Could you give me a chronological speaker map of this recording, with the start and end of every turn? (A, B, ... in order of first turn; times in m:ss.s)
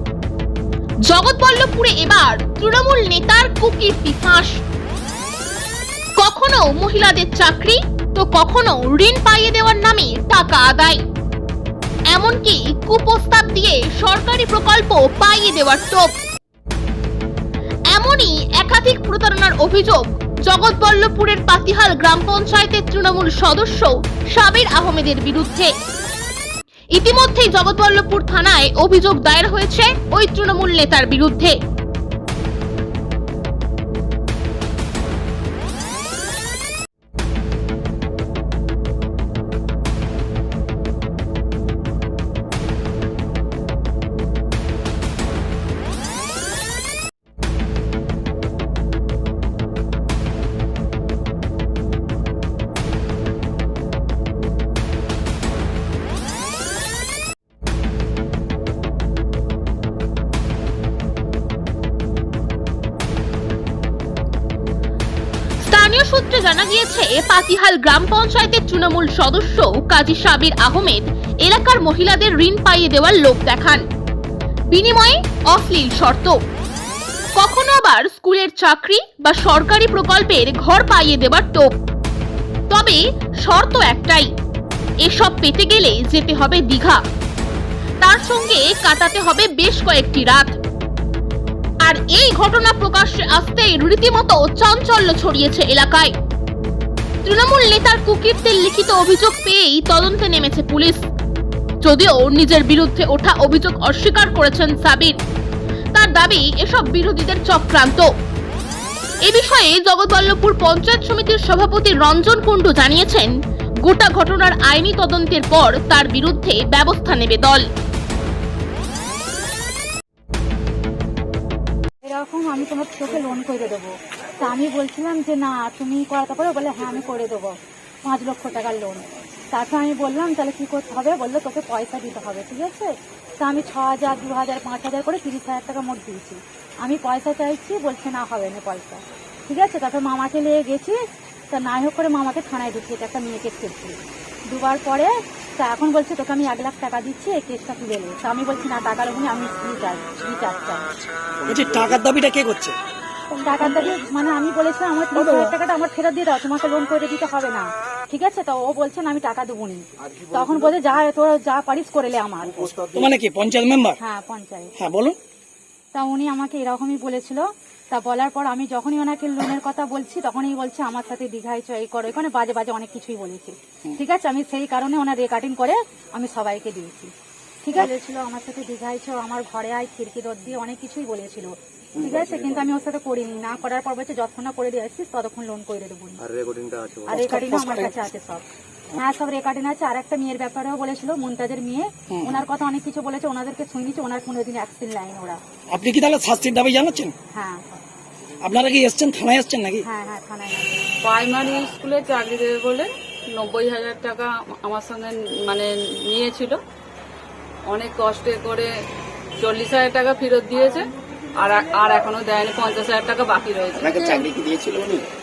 0:01.1-0:04.6 A
0:06.2-0:11.0 A
0:12.1-0:16.1 A
0:17.9-0:25.7 A
0:27.0-0:31.5 A
1:05.6-1:13.8 A
1:14.7-1:16.4 A
1:17.4-1:21.7 A
1:22.7-1:24.3 A
1:25.0-1:27.0 A
1:28.0-1:30.6 A
1:31.9-1:36.1 A
1:37.2-1:41.0 A
1:41.8-1:45.2 A
1:45.9-1:48.1 A
1:49.2-1:53.3 A
1:53.9-1:57.6 A
2:02.0-2:21.0 B
2:21.5-2:24.0 B
2:24.5-2:30.8 B
2:31.5-2:32.8 C
2:31.5-2:31.9 D
2:33.3-2:42.7 B
2:35.2-2:35.5 C
2:42.8-2:43.1 D
2:42.9-2:44.0 C
2:44.0-2:44.7 B
2:44.8-2:45.2 C
2:45.9-2:57.1 B
2:57.6-3:06.2 B
3:06.3-3:07.0 D
3:07.1-3:15.4 B
3:07.1-3:07.9 C
3:12.1-3:12.4 C
3:15.7-3:17.1 C
3:17.3-3:17.8 B
3:18.4-3:19.8 C
3:19.8-3:20.8 B
3:21.0-3:26.6 E
3:27.7-3:28.7 E
3:29.4-3:34.2 E
3:34.0-3:35.1 D